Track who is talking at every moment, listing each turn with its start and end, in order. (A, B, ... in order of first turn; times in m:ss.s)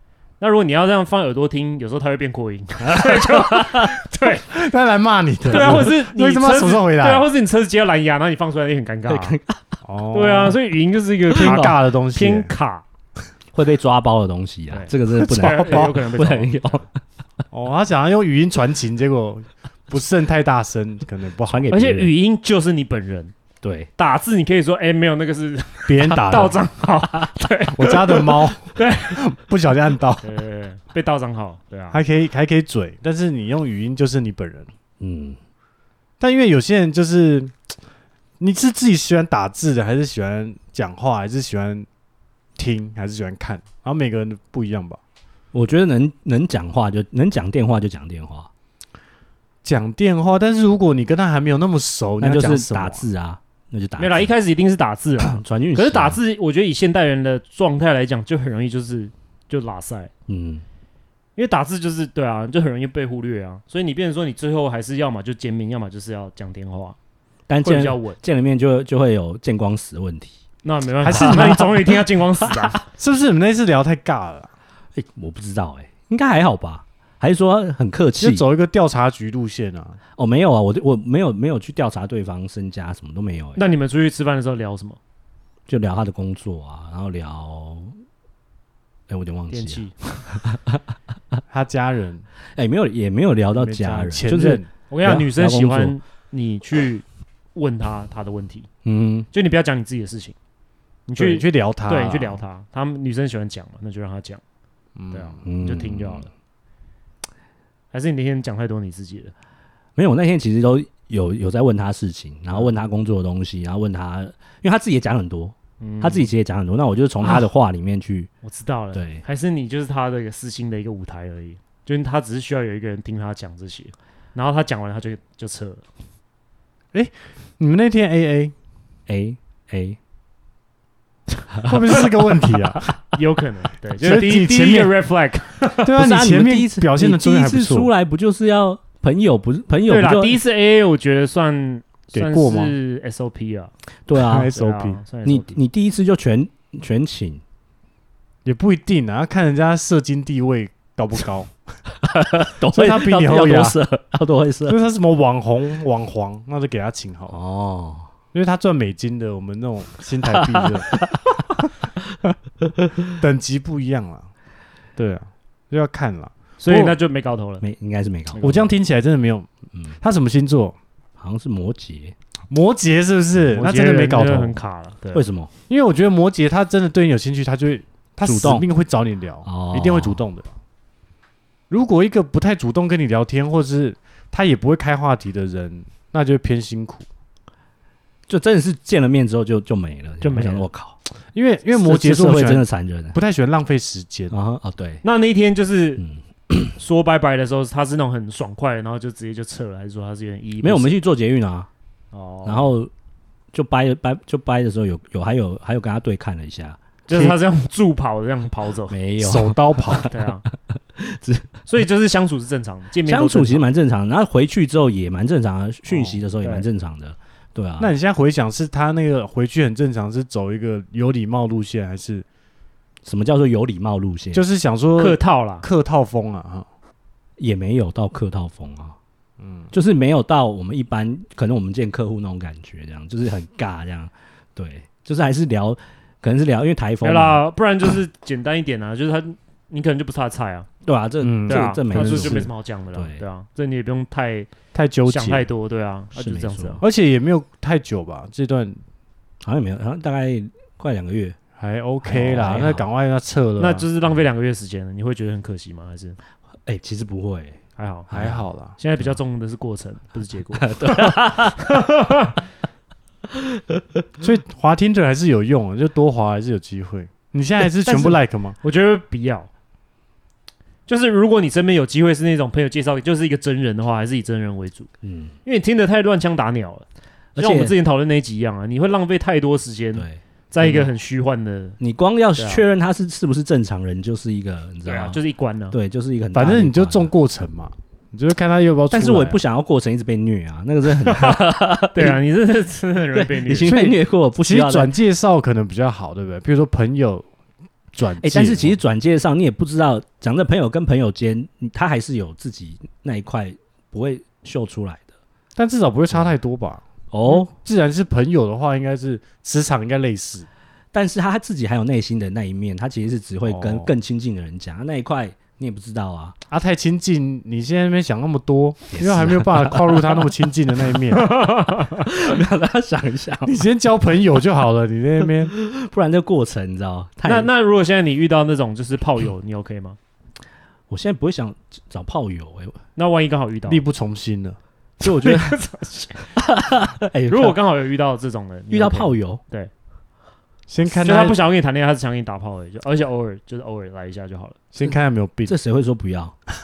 0:00.4-0:04.5 A
0:02.8-0:03.9 B
0:04.4-0:07.3 C
0:05.5-0:09.4 A
0:05.5-0:05.9 B
0:09.1-0:09.6 B
0:09.8-0:10.6 C
0:10.1-0:12.8 A
0:11.3-0:12.5 C
0:11.4-0:11.7 B
0:13.5-0:16.9 B
0:14.7-0:16.8 A
0:15.1-0:15.9 C
0:17.5-0:21.7 C
0:21.5-0:22.1 B
0:21.7-0:23.3 A
0:23.6-0:23.9 B
0:24.0-0:29.2 A
0:25.9-0:26.6 C
0:27.8-0:30.3 C
0:30.2-0:32.0 A
0:31.9-0:34.7 C
0:35.0-0:35.4 B
0:36.2-0:37.5 C
0:38.4-0:41.8 C
0:42.6-0:45.0 C
0:45.5-0:48.5 B
0:49.6-0:53.0 C
0:52.2-0:54.3 B
0:54.0-1:00.1 A
0:55.2-0:56.2 B
1:00.3-1:00.6 B
1:01.4-1:07.0 A
1:07.5-1:10.4 B
1:07.6-1:08.2 A
1:10.6-1:12.8 A
1:11.0-1:11.8 C
1:11.1-1:11.8 B
1:12.9-1:14.5 C
1:14.9-1:18.4 B
1:18.2-1:20.0 C
1:20.2-1:23.6 B
1:23.6-1:25.0 A
1:25.7-1:27.9 B
1:29.1-1:30.8 B
1:29.5-1:29.9 A
1:31.5-1:32.3 C
1:32.5-1:36.0 B
1:33.6-1:34.7 C
1:34.9-1:38.7 A
1:38.8-1:39.3 B
1:39.3-1:40.3 A
1:41.1-1:44.4 A
1:41.2-1:42.4 C
1:45.0-1:45.4 C
1:45.1-1:46.3 A
1:45.4-1:46.3 B
1:47.9-1:49.3 A
1:50.0-1:58.3 B
1:55.8-1:56.3 A
1:58.4-2:05.8 A
1:58.9-1:59.2 B
2:06.9-2:08.5 C
2:09.1-2:10.0 B
2:11.6-2:12.0 B
2:11.6-2:12.9 C
2:13.1-2:15.9 A
2:14.0-2:14.9 C
2:15.8-2:17.9 C
2:16.0-2:20.4 B
2:19.9-2:23.7 A
2:22.1-2:22.7 C
2:24.1-2:24.6 B
2:24.2-2:25.0 C
2:24.5-2:25.6 A
2:25.2-2:27.4 B
2:28.4-2:31.5 C
2:31.9-2:34.8 B
2:32.7-2:33.8 C
2:34.7-2:37.4 C
2:37.3-2:38.1 B
2:38.3-2:41.0 C
2:40.2-2:41.4 B
2:42.6-2:43.1 B
2:43.1-2:44.3 C
2:45.0-2:47.0 C
2:46.6-2:47.6 A
2:47.6-2:48.6 B
2:48.3-2:48.7 A
2:48.4-2:49.5 C
2:50.0-2:50.8 C
2:51.2-2:52.1 B
2:52.5-2:54.6 C
2:53.5-2:55.2 A
2:55.1-2:55.5 B
2:55.7-3:00.5 C
2:58.2-2:58.6 B
2:59.4-3:00.2 B
3:01.7-3:07.0 C
3:08.3-3:11.0 B
3:10.2-3:10.6 A
3:11.3-3:14.3 C
3:11.7-3:13.2 B
3:14.3-3:15.0 B
3:15.0-3:16.0 A
3:16.0-3:16.7 B
3:16.7-3:20.9 A
3:20.6-3:21.7 B
3:22.1-3:22.7 A
3:22.4-3:22.9 B
3:23.5-3:26.8 B
3:27.1-3:29.0 A
3:27.1-3:27.4 C
3:28.9-3:30.1 B
3:29.2-3:30.1 C
3:30.1-3:30.4 A
3:30.7-3:31.7 B
3:31.7-3:33.6 A
3:33.0-3:37.9 B
3:36.4-3:36.7 A
3:37.8-3:42.2 C
3:43.0-3:44.4 B
3:44.3-3:46.6 C
3:45.0-3:45.6 A
3:47.4-3:48.9 B
3:49.4-3:49.7 C
3:49.7-3:57.4 B
3:57.0-4:00.7 A
4:00.8-4:03.2 B
4:01.2-4:02.5 C
4:01.5-4:04.5 A
4:04.7-4:05.4 C
4:05.1-4:06.8 A
4:06.1-4:06.8 B
4:06.8-4:08.8 C
4:09.4-4:11.4 B
4:11.6-4:13.8 C
4:12.0-4:12.9 B
4:13.6-4:16.2 A
4:16.6-4:17.6 B
4:17.8-4:22.4 A
4:18.1-4:18.4 B
4:18.1-4:18.8 C
4:20.6-4:21.6 B
4:23.3-4:23.8 B
4:24.2-4:28.6 C
4:27.8-4:28.2 B
4:28.6-4:29.5 A
4:30.9-4:34.9 A
4:35.0-4:35.3 B
4:35.4-4:36.8 A
4:37.4-4:37.7 B
4:37.4-4:41.8 A
4:39.9-4:40.8 B
4:41.8-4:45.2 B
4:42.4-4:42.6 A
4:44.8-4:45.8 A
4:45.7-4:47.1 B
4:46.3-4:49.4 C
4:48.9-4:52.2 B
4:51.0-4:51.4 A
4:51.9-4:53.8 A
4:53.1-4:54.9 B
4:53.6-4:57.3 C
4:57.9-4:58.8 C
4:58.2-5:05.1 B
5:05.6-5:10.5 C
5:07.1-5:07.5 B
5:10.9-5:16.4 B
5:13.5-5:13.9 C
5:16.5-5:21.2 C
5:18.9-5:20.2 B
5:21.1-5:22.1 A
5:22.0-5:23.6 B
5:23.4-5:25.5 C
5:25.5-5:27.5 B
5:27.2-5:30.0 A
5:30.9-5:32.8 B
5:33.0-5:33.8 A
5:33.7-5:34.6 C
5:35.0-5:35.6 B
5:35.0-5:36.3 A
5:36.4-5:37.6 B
5:37.3-5:39.7 A
5:38.7-5:39.4 B
5:40.7-5:41.4 C
5:40.8-5:44.6 A
5:44.7-5:45.5 C
5:45.4-5:46.4 B